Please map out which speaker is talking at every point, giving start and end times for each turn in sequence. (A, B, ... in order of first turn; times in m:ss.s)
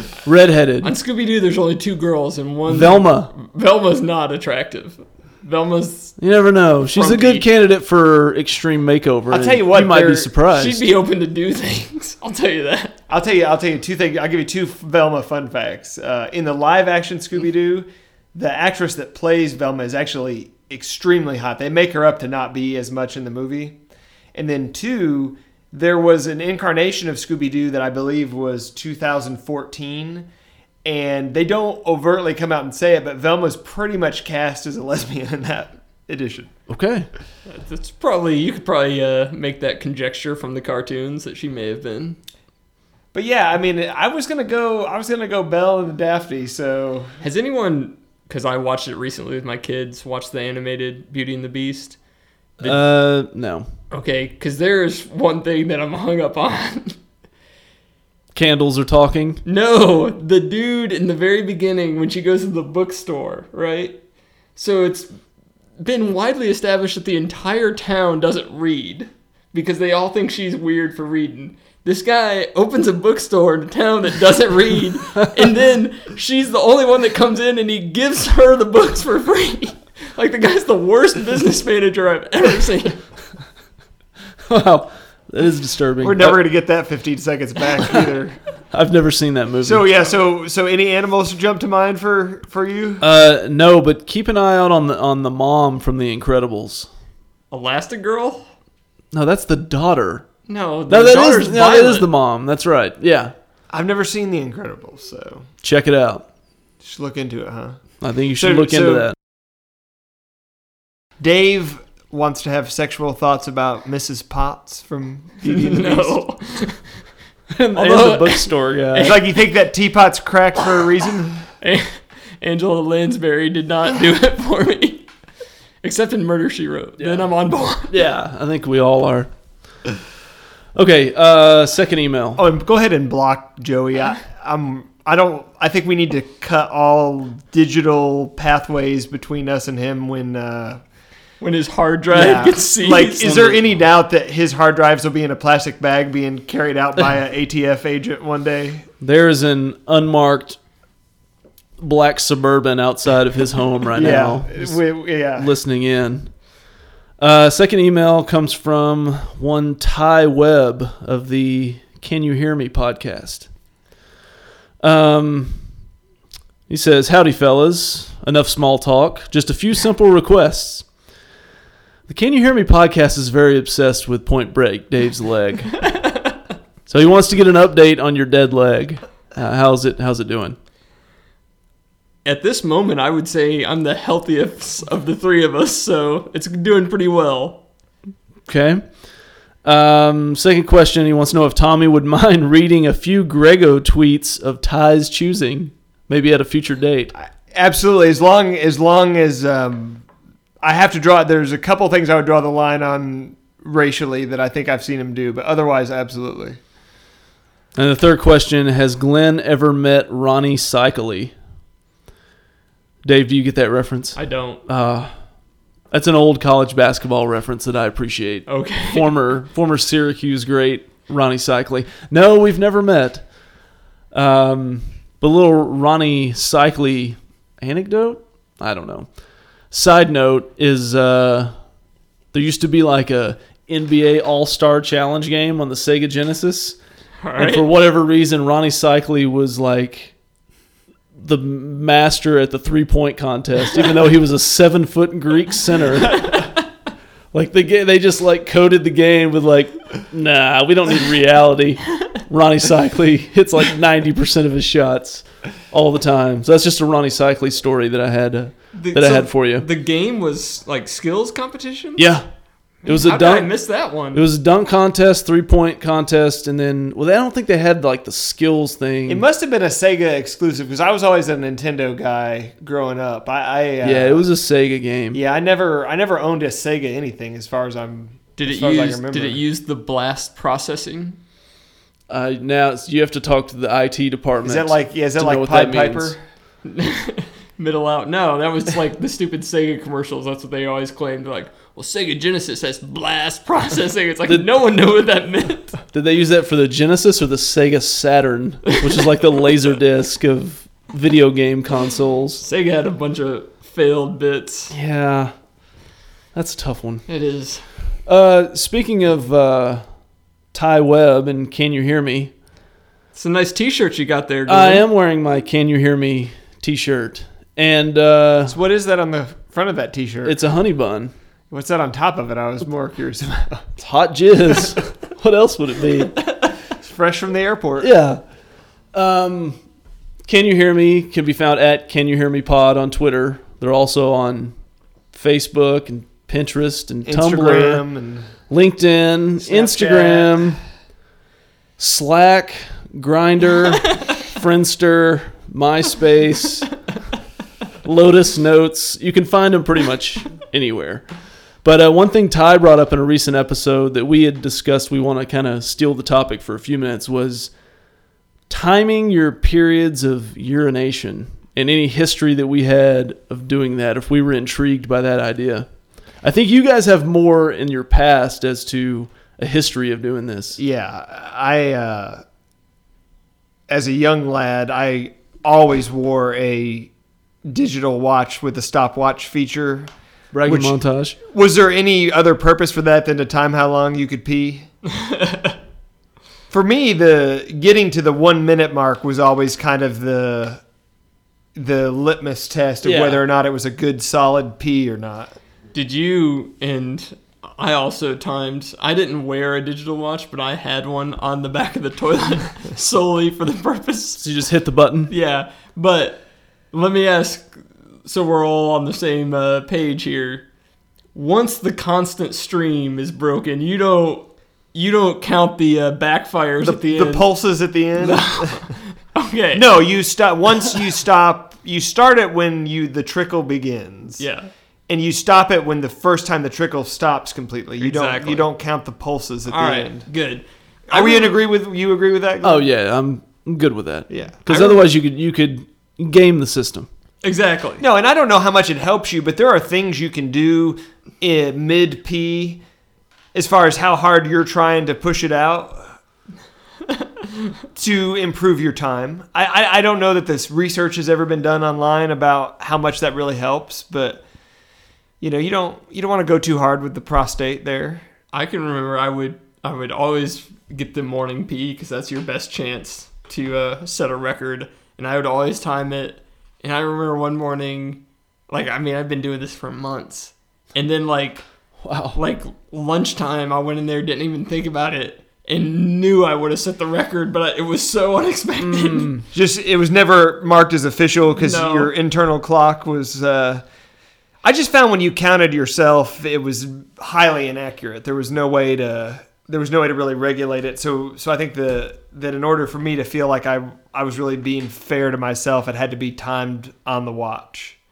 0:00.2-0:00.9 A
0:00.8-0:06.2 B
0:02.7-0:03.3 A
0:06.2-0:10.9 A
0:06.9-0:07.4 B
0:09.3-0:10.3 C
0:10.5-0:13.0 B
0:13.1-0:23.8 C
0:24.3-0:30.3 C
0:30.8-0:36.5 C
0:36.7-0:37.1 A
0:37.4-0:42.2 B
0:43.1-0:47.2 C
0:47.2-0:52.0 B
0:52.6-0:53.7 A
0:53.9-0:57.0 B
0:58.3-0:59.4 A
0:59.4-1:04.0 B
1:04.6-1:05.1 B
1:05.8-1:23.0 B
1:24.5-1:26.4 A
1:26.0-1:28.4 C
1:28.7-1:29.9 A
1:29.6-1:33.0 C
1:33.0-1:36.9 A
1:37.5-1:38.4 B
1:39.1-1:40.3 A
1:40.5-1:42.1 B
1:40.9-1:43.3 A
1:43.7-1:45.5 C
1:45.6-1:46.2 A
1:46.8-1:47.8 C
1:48.0-1:49.1 A
1:48.4-1:49.1 C
1:51.2-1:56.2 C
1:55.4-1:56.8 B
1:57.5-1:59.2 A
1:57.8-1:59.2 B
1:59.0-2:01.5 C
2:01.6-2:05.0 B
2:05.8-2:08.0 B
2:07.0-2:07.3 A
2:07.9-2:09.3 A
2:10.7-2:12.4 A
2:12.4-2:20.8 C
2:21.4-2:23.6 B
2:22.1-2:28.9 C
2:29.0-2:30.6 A
2:31.8-2:34.8 A
2:33.9-2:35.5 C
2:35.4-2:36.3 A
2:37.2-2:43.5 A
2:44.8-2:45.6 A
2:46.7-2:50.8 A
2:52.1-2:55.9 A
2:56.9-3:00.6 A
3:02.2-3:07.6 B
3:08.5-3:08.8 A
3:09.6-3:17.1 A
3:17.1-3:20.0 C
3:20.6-3:26.6 C
3:27.8-3:31.3 A
3:33.0-3:35.1 A
3:34.2-3:34.6 B
3:35.9-3:43.2 A
3:38.5-3:39.1 B
3:44.1-3:49.1 A
3:49.7-3:51.5 A
3:52.3-3:56.8 A
3:57.2-3:57.6 B
3:57.4-4:00.1 A
4:01.2-4:06.5 A
4:07.3-4:19.7 A
4:18.8-4:22.1 B
4:22.0-4:22.2 A
4:22.8-4:23.5 A
4:22.8-4:24.2 B
4:24.1-4:29.2 A
4:29.1-4:34.2 C
4:33.8-4:35.2 A
4:35.1-4:39.4 C
4:38.4-4:41.2 B
4:42.1-4:46.2 A
4:44.4-4:46.2 C
4:46.6-4:55.8 B
4:55.9-5:02.4 A
5:02.4-5:04.7 B
5:04.7-5:05.3 A
5:06.3-5:07.0 A
5:07.1-5:07.6 B
5:08.0-5:09.8 A
5:10.5-5:12.3 A
5:13.1-5:14.8 B
5:14.5-5:18.6 A
5:18.4-5:20.4 C
5:20.2-5:21.1 A
5:21.5-5:23.6 C
5:23.8-5:26.2 A
5:26.8-5:27.9 C
5:27.8-5:28.2 A
5:28.9-5:29.6 A
5:30.2-5:34.5 A
5:35.1-5:37.8 A
5:37.0-5:38.3 C
5:38.5-5:40.6 A
5:39.4-5:40.6 C
5:41.8-5:46.8 A
5:47.8-5:51.0 A
5:51.6-5:57.5 A
5:58.5-6:05.7 A
6:06.2-6:10.6 A
6:10.6-6:12.2 C
6:13.7-6:16.9 C
6:17.4-6:19.9 C
6:20.3-6:21.2 A
6:20.4-6:24.7 C
6:25.0-6:25.5 B
6:26.5-6:30.6 C
6:31.5-6:35.3 C
6:32.8-6:33.2 A
6:35.7-6:44.2 B
6:44.2-6:45.1 A
6:45.1-6:50.4 B
6:51.1-6:57.3 B
6:56.6-6:58.7 C
6:58.0-6:59.7 B
6:59.5-7:04.2 C
7:04.2-7:04.5 B
7:04.9-7:10.1 C
7:07.8-7:08.5 B
7:09.5-7:11.4 B
7:10.9-7:12.6 C
7:12.4-7:16.9 A
7:14.1-7:14.4 C
7:14.5-7:14.8 B
7:17.2-7:17.8 B
7:17.8-7:22.6 C
7:23.3-7:25.9 C
7:27.7-7:34.2 C
7:35.2-7:38.0 C
7:38.3-7:51.4 B
7:51.8-7:52.2 A
7:52.1-7:59.1 B
7:58.6-7:59.2 A
7:59.3-8:03.6 C
8:01.4-8:01.9 B
8:04.4-8:17.8 C